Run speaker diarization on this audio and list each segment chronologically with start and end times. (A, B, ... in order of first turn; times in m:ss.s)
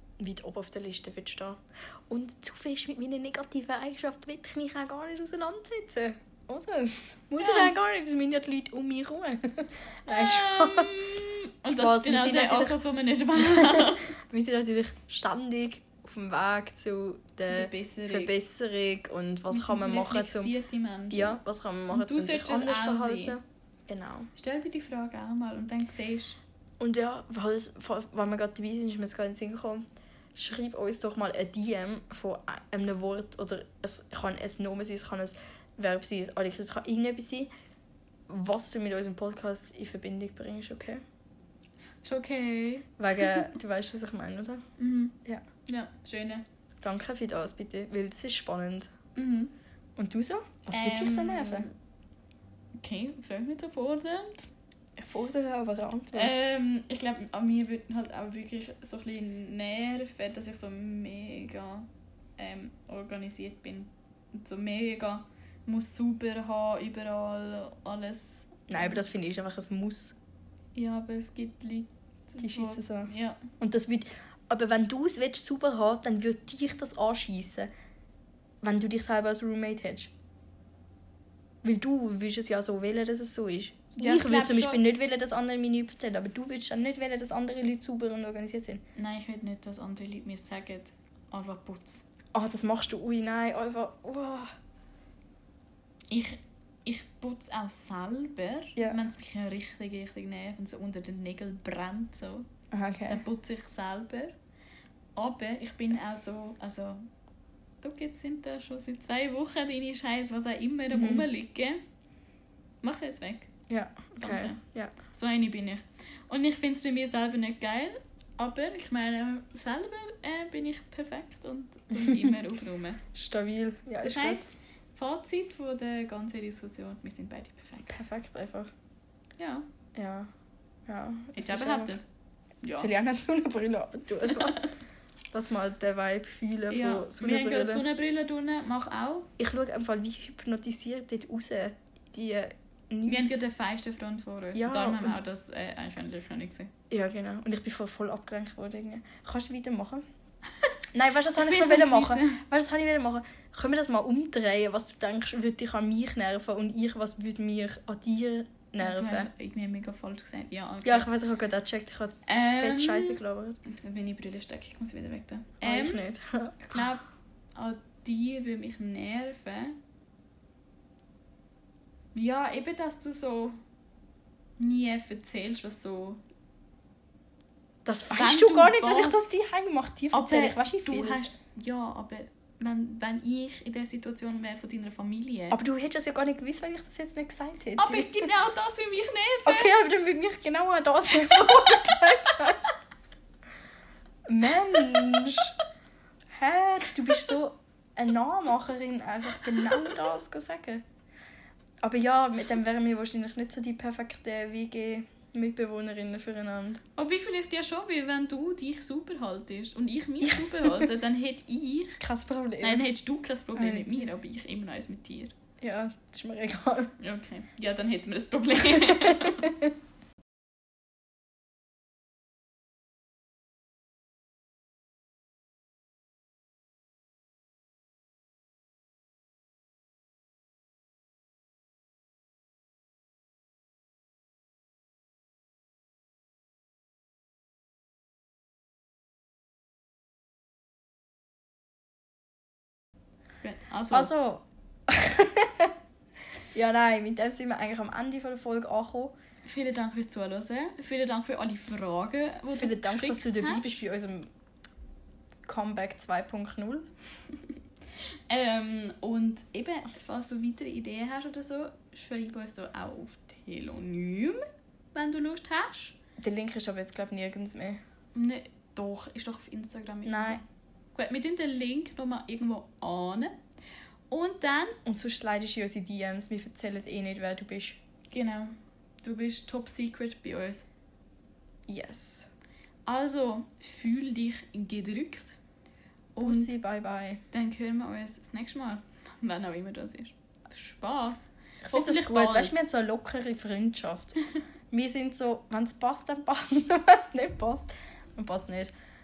0:00.2-0:11.0 A
0:07.4-0:07.7 B
0:10.1-0:14.1 B
0:11.7-0:12.8 A
0:13.4-0:20.5 A
0:17.5-0:18.3 B
0:19.5-0:23.4 B
0:21.1-0:24.3 A
0:24.4-0:26.4 B
0:26.8-0:29.8 A
0:30.4-0:37.5 A
0:38.3-0:41.0 A
0:42.0-0:43.5 B
0:43.0-0:44.6 A
0:44.8-0:46.4 B
0:46.8-0:48.9 A
0:49.2-0:49.5 B
0:50.0-0:51.7 A
0:50.7-0:51.7 B
0:52.8-0:54.5 B
0:55.0-0:56.4 A
0:56.1-1:09.0 B
1:08.7-1:10.2 A
1:10.8-1:13.4 B
1:12.4-1:17.7 A
1:18.6-1:20.1 A
1:21.6-1:28.8 A
1:24.0-1:24.8 B
1:29.0-1:32.0 B
1:32.3-1:34.5 A
1:36.1-1:42.5 B
1:42.7-1:43.2 A
1:43.1-1:44.3 B
1:45.2-1:47.0 B
1:47.8-1:51.8 B
1:50.9-1:51.3 A
1:52.8-1:53.5 B
1:53.7-1:54.9 A
1:54.2-2:03.0 B
2:03.2-2:04.5 A
2:04.0-2:08.0 B
2:07.9-2:08.7 A
2:09.4-2:09.6 B
2:10.0-2:10.3 A
2:10.9-2:12.0 A
2:11.4-2:12.1 B
2:12.6-2:12.9 B
2:12.7-2:14.6 A
2:14.3-2:14.7 B
2:15.3-2:17.8 A
2:16.7-2:19.3 B
2:19.4-2:23.4 A
2:23.1-2:26.7 B
2:24.6-2:25.2 A
2:26.9-2:30.0 A
2:30.9-2:39.3 A
2:31.3-2:32.4 B
2:38.8-2:41.1 B
2:40.8-2:43.6 A
2:42.3-2:46.0 B
2:45.6-2:46.9 A
2:46.6-2:49.8 B
2:52.1-2:53.6 B
2:54.6-2:56.2 B
2:57.8-3:01.2 A
2:58.1-2:59.3 B
3:00.1-3:05.6 B
3:05.5-3:08.3 A
3:07.8-3:09.7 B
3:09.5-3:12.7 A
3:14.3-3:15.6 A
3:16.3-3:20.8 A
3:21.8-3:26.8 A
3:27.0-3:32.0 B
3:30.2-3:30.9 A
3:32.0-3:32.9 A
3:32.6-3:35.3 B
3:33.6-3:34.1 A
3:35.6-3:36.9 A
3:37.0-3:39.6 B
3:38.9-3:39.5 A
4:03.4-4:04.1 B
4:03.9-4:05.7 A
4:06.5-4:09.2 A
4:09.4-4:13.8 B
4:12.5-4:14.3 A
4:15.5-4:16.9 A
4:18.3-4:24.4 B
4:24.9-4:26.0 B
4:26.2-4:27.8 A
4:28.2-4:30.4 B
4:30.0-4:30.4 A
4:31.0-4:33.4 B
4:34.1-4:34.8 B
4:34.9-4:37.8 A
4:38.1-4:40.7 B
4:41.7-4:42.3 A
4:42.9-4:45.4 B
4:46.2-4:46.6 B
4:46.2-4:47.2 A
4:47.3-4:52.6 B
4:51.6-4:58.7 A